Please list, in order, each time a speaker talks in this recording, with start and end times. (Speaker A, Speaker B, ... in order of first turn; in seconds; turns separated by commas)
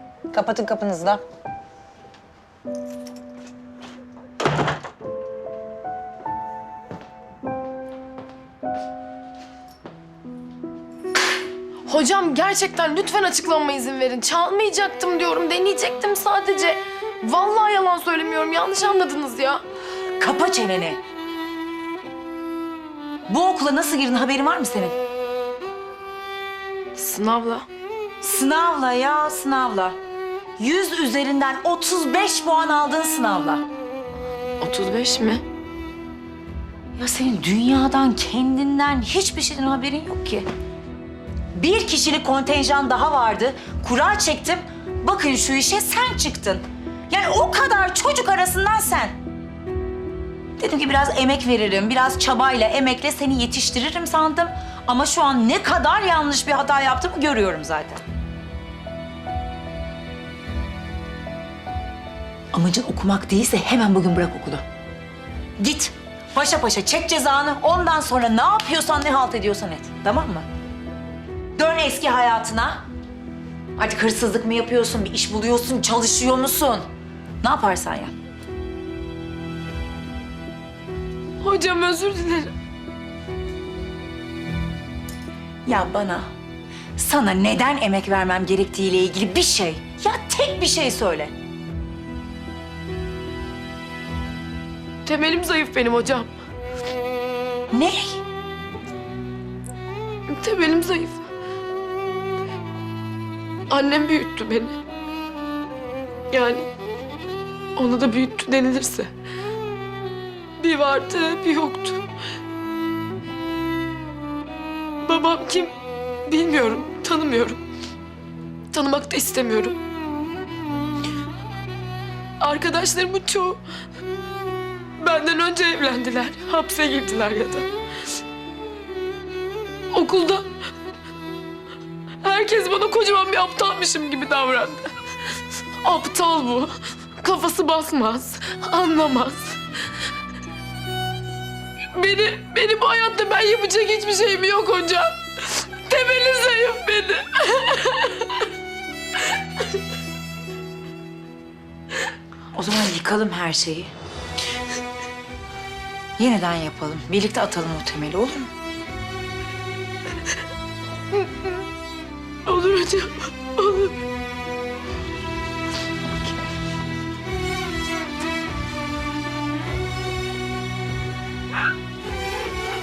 Speaker A: 0.3-1.2, Speaker B: 11.9-19.6, Speaker A: 20.2-21.0, Speaker A: 23.3-24.9, Speaker B: 26.9-27.7, Speaker A: 28.2-30.0, Speaker A: 30.6-33.6, Speaker B: 34.6-35.4, Speaker A: 37.0-40.5, Speaker A: 41.5-49.1, Speaker A: 50.6-58.0, Speaker A: 62.5-64.6, Speaker A: 65.6-70.5, Speaker A: 71.6-72.8, Speaker A: 73.8-76.9, Speaker A: 77.4-78.1, Speaker B: 81.4-82.5, Speaker A: 85.7-86.3, Speaker A: 87.0-91.3, Speaker B: 95.0-96.3, Speaker A: 97.7-98.2, Speaker B: 100.3-101.3, Speaker B: 103.7-104.8, Speaker B: 106.3-106.7, Speaker B: 107.8-109.1, Speaker B: 110.6-112.0, Speaker B: 115.0-117.6, Speaker B: 118.7-119.8, Speaker B: 122.4-123.6, Speaker B: 125.0-127.7, Speaker B: 129.9-130.5, Speaker B: 132.2-134.9, Speaker B: 135.8-139.6, Speaker B: 141.9-148.5, Speaker B: 149.3-149.6, Speaker A: 152.5-153.9, Speaker A: 156.2-158.5, Speaker B: 162.4-163.9